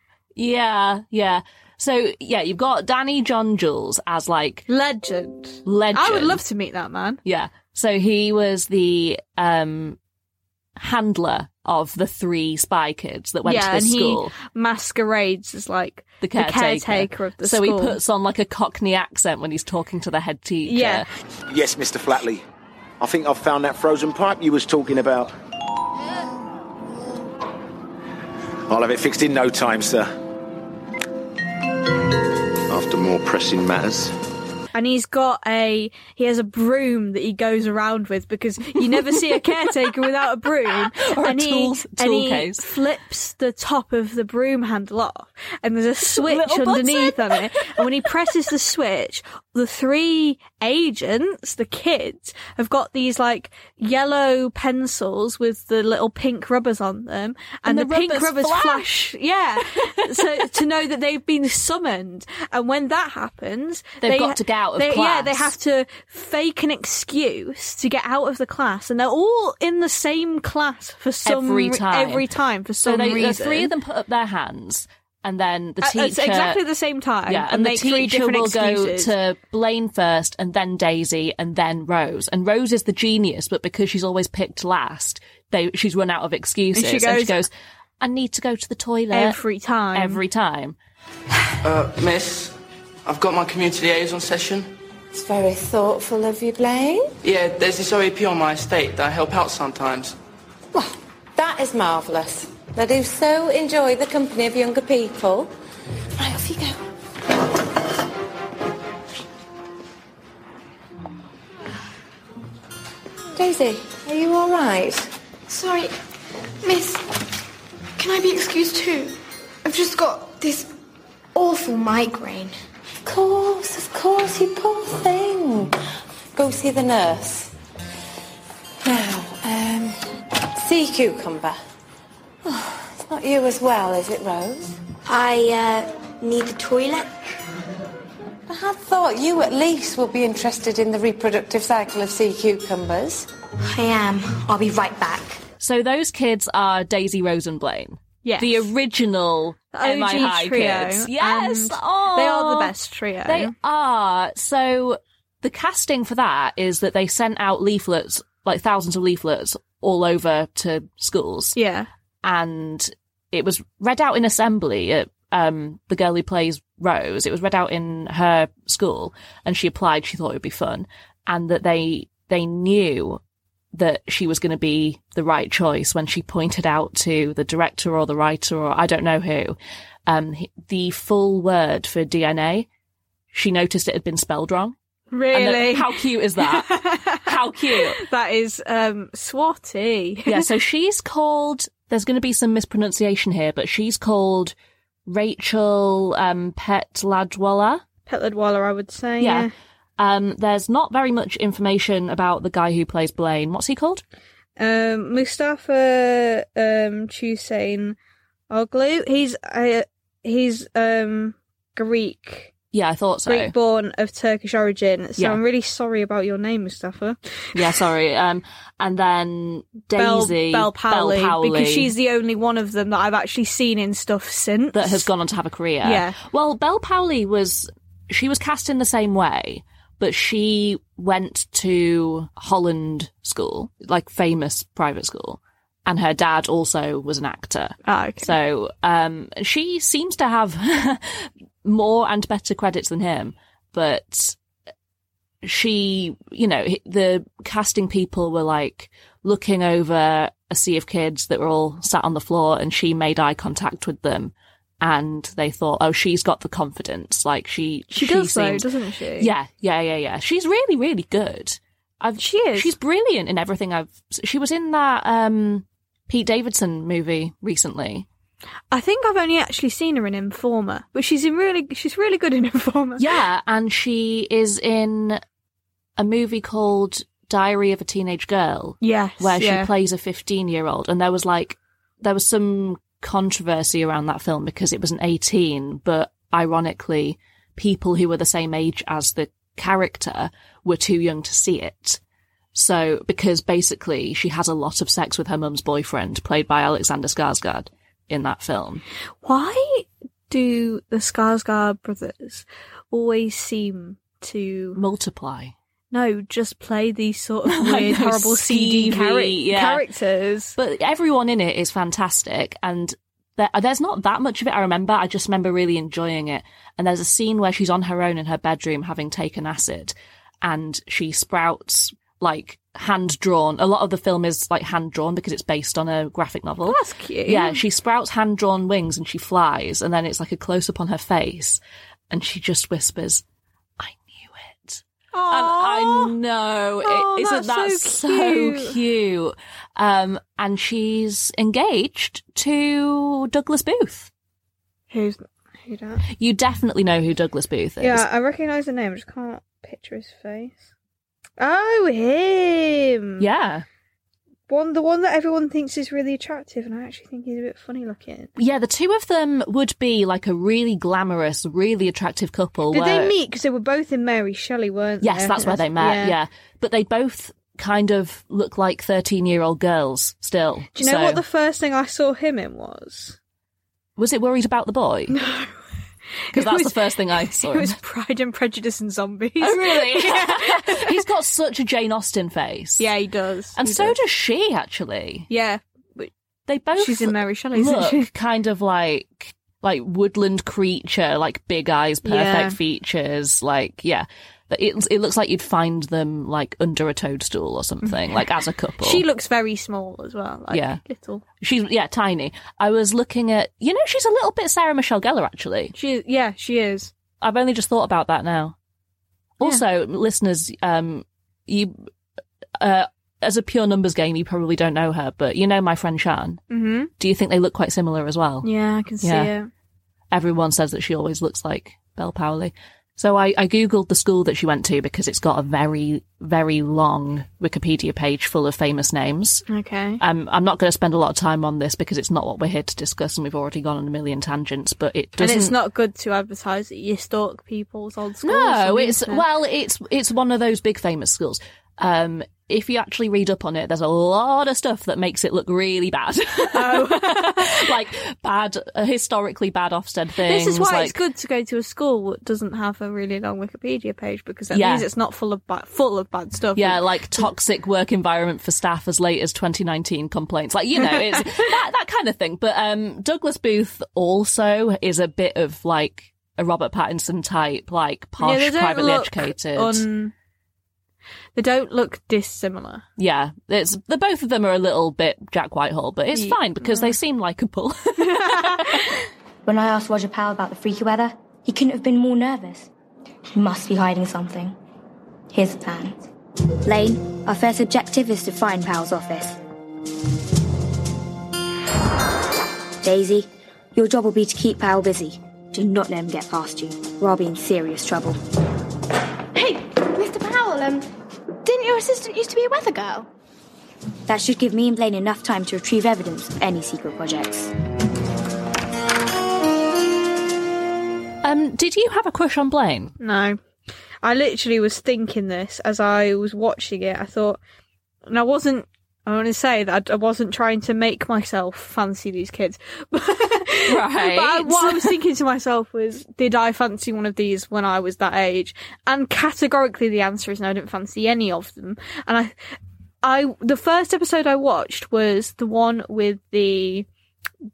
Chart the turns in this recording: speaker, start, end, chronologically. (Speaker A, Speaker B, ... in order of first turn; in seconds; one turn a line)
Speaker A: 0.3-4.7
Speaker B: 4.7-7.2
Speaker A: 5.6-6.4
Speaker A: 7.2-10.0
Speaker A: 10.8-14.3
Speaker B: 13.4-18.0
Speaker A: 16.2-21.1
Speaker B: 20.6-21.0
Speaker C: 21.5-22.4
Speaker C: 23.0-25.3
Speaker C: 28.7-30.1
Speaker C: 32.7-34.1
Speaker B: 34.7-73.7
Speaker A: 38.8-39.7
Speaker A: 40.7-42.6
Speaker A: 46.0-48.1
Speaker A: 57.6-58.9
Speaker A: 59.7-60.5
Speaker A: 64.0-65.5
Speaker A: 71.2-72.2
Speaker A: 72.8-76.6
Speaker B: 75.8-79.1
Speaker A: 77.3-87.5
Speaker B: 86.7-87.4
Speaker A: 88.0-89.4
Speaker B: 89.1-90.2
Speaker A: 89.9-90.8
Speaker D: 91.6-92.5
Speaker D: 93.0-94.7
Speaker E: 95.1-97.1
Speaker D: 97.2-100.1
Speaker E: 100.7-105.5
Speaker E: 106.2-106.8
Speaker E: 113.3-115.1
Speaker F: 115.5-115.9
Speaker F: 116.6-117.0
Speaker F: 118.0-120.7
Speaker F: 121.3-122.5
Speaker E: 123.0-125.7
Speaker E: 126.3-127.5
Speaker E: 128.8-131.6
Speaker E: 132.4-134.8
Speaker G: 135.1-137.1
Speaker E: 138.5-143.3
Speaker G: 143.6-145.4
Speaker A: 145.6-152.7
Speaker B: 148.2-148.7
Speaker B: 149.7-153.5
Speaker A: 153.2-161.6
Speaker B: 161.6-161.9
Speaker A: 162.2-173.2
Speaker A: 173.7-182.7
Speaker A: 183.3-184.7
Speaker B: 185.1-190.5
Speaker A: 185.3-186.7
Speaker A: 187.2-188.0
Speaker A: 190.3-194.5
Speaker A: 195.1-197.8
Speaker B: 198.1-199.5
Speaker A: 199.2-204.0
Speaker B: 204.6-207.9
Speaker B: 208.5-212.5
Speaker A: 212.7-213.5
Speaker B: 213.2-217.2
Speaker A: 217.5-221.9
Speaker B: 219.9-225.1
Speaker A: 224.7-244.4
Speaker B: 225.8-226.2
Speaker B: 237.8-238.3
Speaker A: 245.4-258.6
Speaker B: 257.9-259.3
Speaker A: 259.2-268.1
Speaker B: 262.2-262.7
Speaker B: 268.7-273.0
Speaker A: 273.0-275.2
Speaker A: 276.0-292.0
Speaker B: 278.8-279.7
Speaker A: 292.5-298.8
Speaker B: 299.2-304.8
Speaker A: 304.7-305.5
Speaker B: 305.9-310.6
Speaker A: 307.5-309.8
Speaker A: 310.6-333.2
Speaker B: 326.6-327.6
Speaker A: 333.8-344.1
Speaker B: 335.1-336.2
Speaker B: 336.8-338.8
Speaker B: 344.9-346.0
Speaker A: 346.1-348.0
Speaker B: 347.8-350.7
Speaker B: 351.4-353.2
Speaker A: 353.2-353.6
Speaker B: 354.5-358.3
Speaker A: 358.4-363.1
Speaker B: 362.7-366.1
Speaker A: 365.0-371.2
Speaker B: 370.8-373.1
Speaker A: 374.0-375.2
Speaker B: 375.1-375.5
Speaker B: 376.3-381.0
Speaker A: 376.3-377.8
Speaker A: 379.4-382.9
Speaker B: 382.8-384.0
Speaker A: 383.6-385.3
Speaker B: 385.3-386.1
Speaker A: 386.5-399.0
Speaker B: 386.8-388.1
Speaker B: 392.0-392.6
Speaker B: 397.8-398.3
Speaker B: 398.8-401.2
Speaker A: 400.5-400.8
Speaker A: 401.4-405.8
Speaker B: 405.7-406.9
Speaker A: 407.2-408.6
Speaker A: 409.4-411.8
Speaker A: 412.6-416.4
Speaker B: 416.5-416.9
Speaker A: 417.0-418.5
Speaker B: 418.4-419.5
Speaker A: 419.0-419.3
Speaker A: 420.1-429.4
Speaker B: 429.5-430.0
Speaker A: 430.0-435.6
Speaker B: 435.2-439.2
Speaker A: 438.2-451.0
Speaker B: 446.5-447.7
Speaker B: 450.2-457.3
Speaker A: 454.5-454.9
Speaker A: 456.6-469.8
Speaker B: 460.8-461.4
Speaker B: 468.2-470.1
Speaker B: 471.4-472.8
Speaker A: 473.0-478.9
Speaker B: 476.1-476.9
Speaker B: 478.1-478.8
Speaker G: 479.4-482.7
Speaker G: 483.3-484.6
Speaker G: 485.3-486.0
Speaker G: 486.6-489.4
Speaker G: 492.8-498.2
Speaker F: 499.3-500.9
Speaker F: 501.4-503.1
Speaker G: 504.1-507.5
Speaker A: 511.2-513.0
Speaker B: 513.0-513.4
Speaker B: 514.0-517.4
Speaker B: 518.1-532.3
Speaker A: 523.7-524.9
Speaker B: 533.0-536.9